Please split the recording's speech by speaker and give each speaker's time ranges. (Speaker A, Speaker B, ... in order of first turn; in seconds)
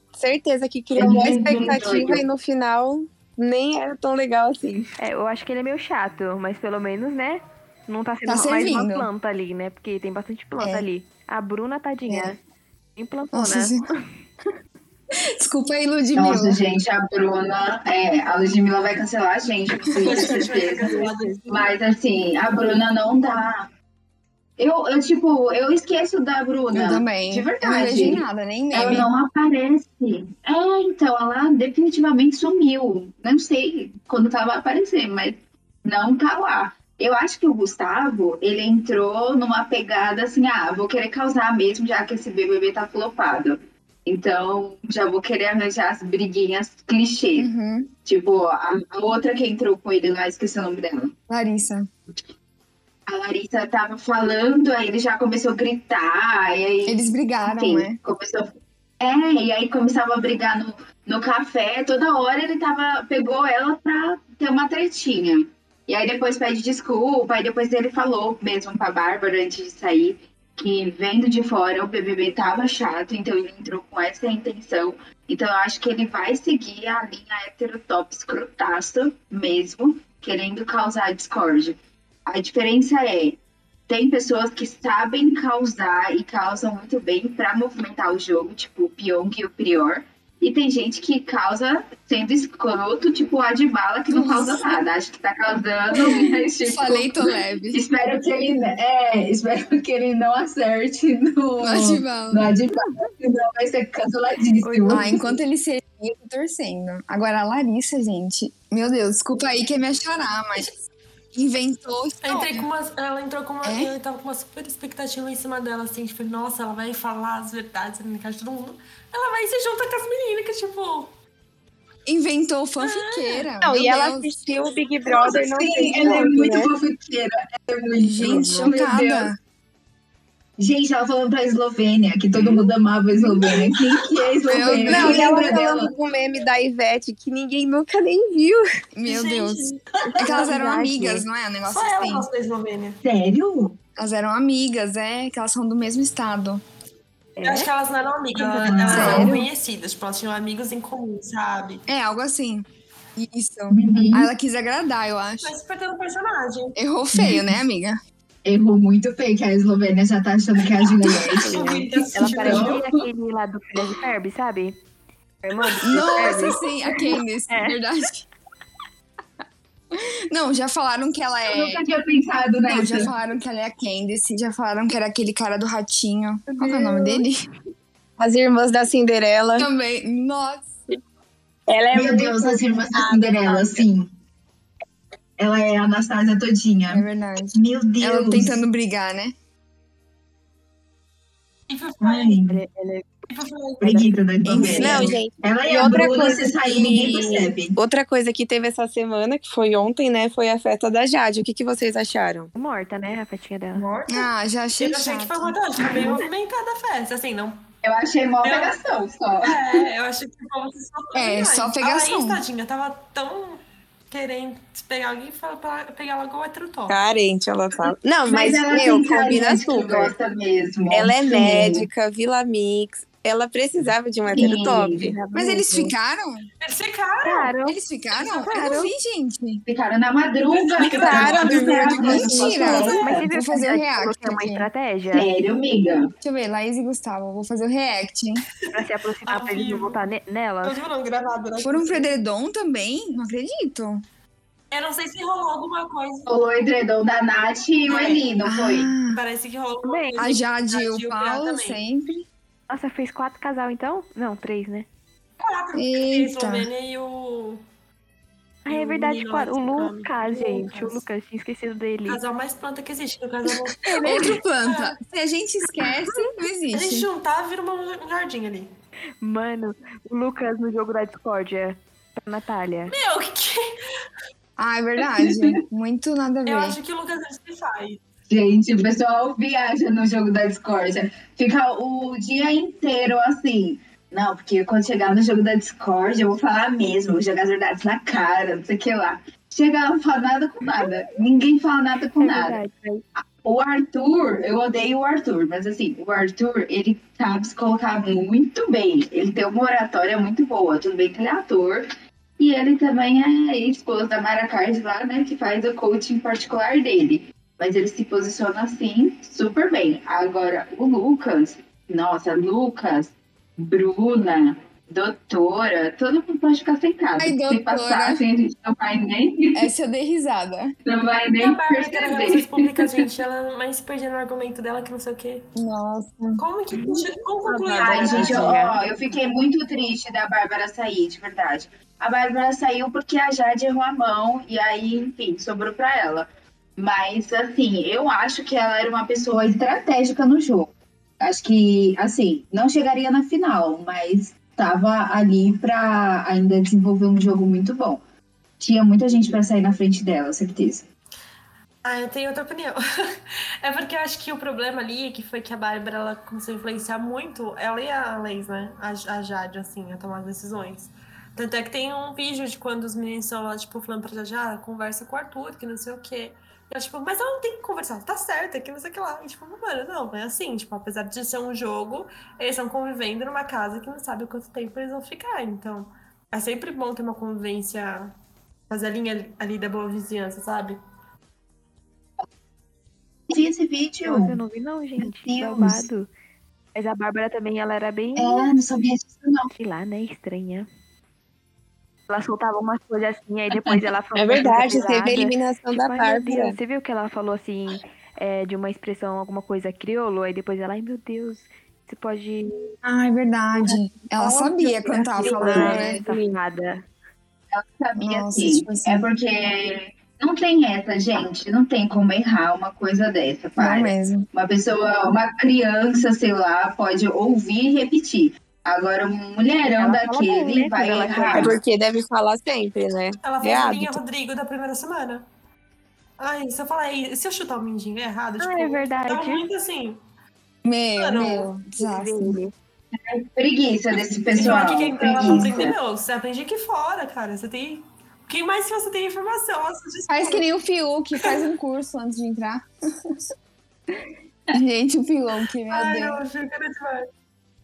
Speaker A: 0.2-4.9, 123.6-126.7, 134.9-138.6, 178.2-179.7, 181.7-183.9, 194.6-202.5, 216.9-220.1, 220.9-225.2, 230.8-232.8, 394.1-396.6, 405.5-406.2, 421.3-424.0
Speaker B: 0.9-2.2, 16.2-23.7, 24.6-47.5, 48.0-51.1, 53.1-97.2, 97.7-105.1, 125.1-129.3, 130.6-135.9, 143.0-143.8, 148.4-149.3, 153.7-154.3, 157.1-157.6, 158.4-161.5, 162.2-162.9, 171.5-173.1, 181.9-184.1, 185.4-188.6, 192.0-192.6, 193.8-197.8, 207.8-209.8, 218.2-221.9, 224.3-225.1, 229.7-233.2, 235.1-236.1, 246.3-248.9, 278.3-292.6, 293.2-301.9, 302.4-319.6, 320.9-323.0, 327.8-348.0, 348.6-350.9, 383.3-384.4, 385.0-385.9, 388.2-389.5, 393.6-393.8, 394.5-394.9, 405.0-405.9, 407.5-421.6, 433.1-435.7
Speaker C: 5.0-12.4, 13.0-14.1, 20.8-21.4, 104.6-105.3, 140.1-141.2, 147.4-147.7, 161.4-164.8, 165.4-166.6, 176.5-177.2, 192.5-193.1, 202.6-203.9, 225.1-225.9, 227.2-227.8, 228.5-228.9, 232.9-235.3, 238.7-240.8, 249.8-250.3, 252.7-254.9, 258.7-262.2, 269.2-272.9, 292.2-293.0, 326.8-328.8, 384.1-386.1, 386.8-388.5, 389.6-390.7, 392.1-402.7, 403.6-406.9, 419.7-421.6, 428.4-429.5, 431.8-432.5
Speaker D: 8.3-9.1, 10.6-10.9, 12.1-12.4, 13.3-13.8, 15.4-16.6, 20.0-20.3, 26.7-29.1, 47.4-47.9, 51.3-51.9, 56.9-58.0, 94.1-94.7, 96.6-97.8, 101.6-102.5, 104.9-110.7, 111.3-112.7, 113.6-113.9, 122.1-124.4, 128.0-129.4, 134.5-135.5, 138.9-139.7, 140.2-142.3, 144.0-146.6, 148.9-149.5, 151.9-152.7, 153.2-155.6, 156.8-158.0, 165.8-168.2, 169.9-171.8, 172.7-177.3, 179.6-180.7, 186.9-189.3, 194.5-195.2, 204.1-206.1, 211.1-212.4, 225.3-226.5, 227.7-229.6, 232.1-234.7, 236.2-238.4, 241.6-244.0, 248.5-249.2, 250.2-252.3, 255.7-256.7, 263.9-267.1, 274.6-276.8, 317.2-318.2, 319.6-320.7, 325.6-326.4, 402.8-406.0, 408.0-409.1, 413.6-414.3, 430.6-432.4, 440.1-442.7, 444.5-446.2
Speaker E: 20.0-21.7, 112.2-121.2, 122.8-123.5, 132.3-132.6, 139.1-140.4, 141.7-143.0, 147.4-151.8, 155.4-156.8, 161.4-162.8, 191.7-192.4, 193.3-194.1, 203.7-207.6, 208.4-208.8, 209.4-217.0, 226.6-227.5, 228.2-228.8, 230.5-233.2, 239.3-240.0, 240.6-242.1, 244.7-246.3, 247.9-248.2, 249.1-251.8, 255.4-257.6, 258.7-261.0, 262.1-265.0, 266.7-268.7, 272.9-273.6, 276.5-278.0, 321.4-325.4, 326.4-328.6, 351.8-378.1, 378.7-380.8, 423.2-425.3, 426.2-430.0, 431.0-431.5, 434.4-440.4, 445.7-447.1